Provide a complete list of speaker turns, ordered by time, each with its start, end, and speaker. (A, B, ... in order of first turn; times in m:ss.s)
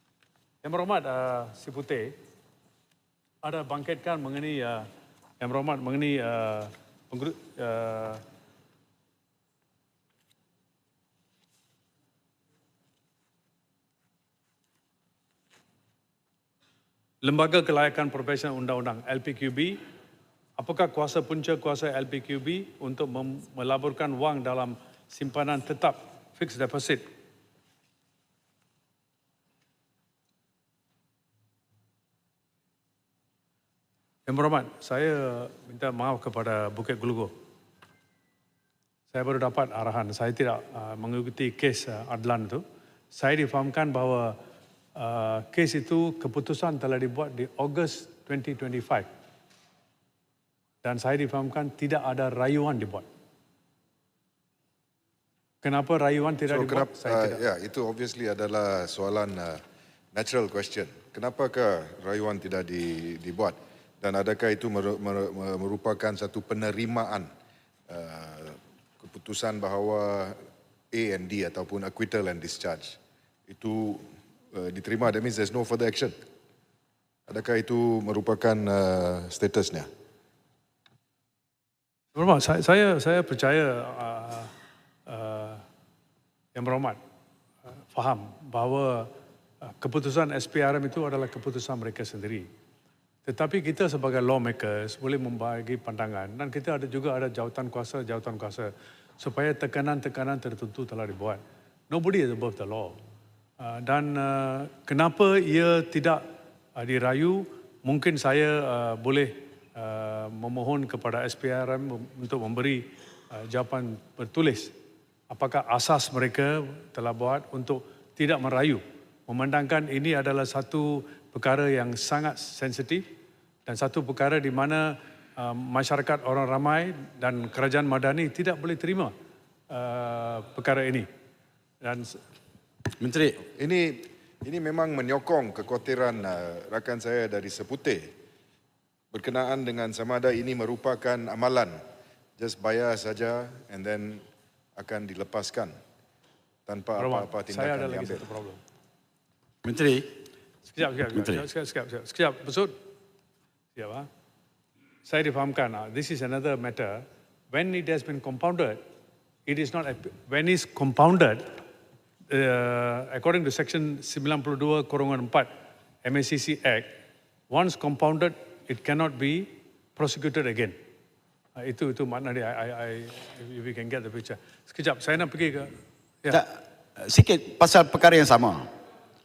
0:00.6-0:02.1 A
0:03.4-0:04.9 A
0:05.4-0:08.2 A
0:17.2-0:19.8 A
0:20.6-0:27.0 A
0:34.3-0:37.3 A
0:39.1-0:44.4 A
0:45.0-0:49.1 A
0:50.8-0:53.1 A
0:55.6-0:57.4 A
0:56.5-0:59.6 B
1:00.1-1:07.3 B
1:07.9-1:10.4 B
1:10.9-1:16.2 B
1:17.3-1:19.9 B
1:22.2-1:24.5 A
1:25.1-1:25.6 A
1:26.6-1:27.0 A
1:27.9-1:29.1 A
1:29.7-1:32.5 A
1:33.3-1:43.0 A
1:43.6-1:46.2 A
1:46.8-1:54.7 A
1:55.3-2:03.0 A
2:03.7-2:09.1 A
2:09.7-2:11.1 A
2:11.8-2:12.2 A
2:13.0-2:13.4 C
2:13.6-2:18.1 B
2:19.1-2:21.8 B
2:22.4-2:24.2 B
2:24.8-2:25.8 B
2:26.7-2:28.3 B
2:27.0-2:28.6 A
2:29.6-2:30.1 C
2:30.7-2:32.8 A
2:31.1-2:31.4 C
2:33.8-2:34.1 A
2:35.1-2:38.8 A
2:39.5-2:41.5 A
2:42.3-2:45.5 A
2:46.0-2:46.9 A
2:47.5-2:50.8 A
2:51.6-2:55.7 A
2:56.3-2:58.7 C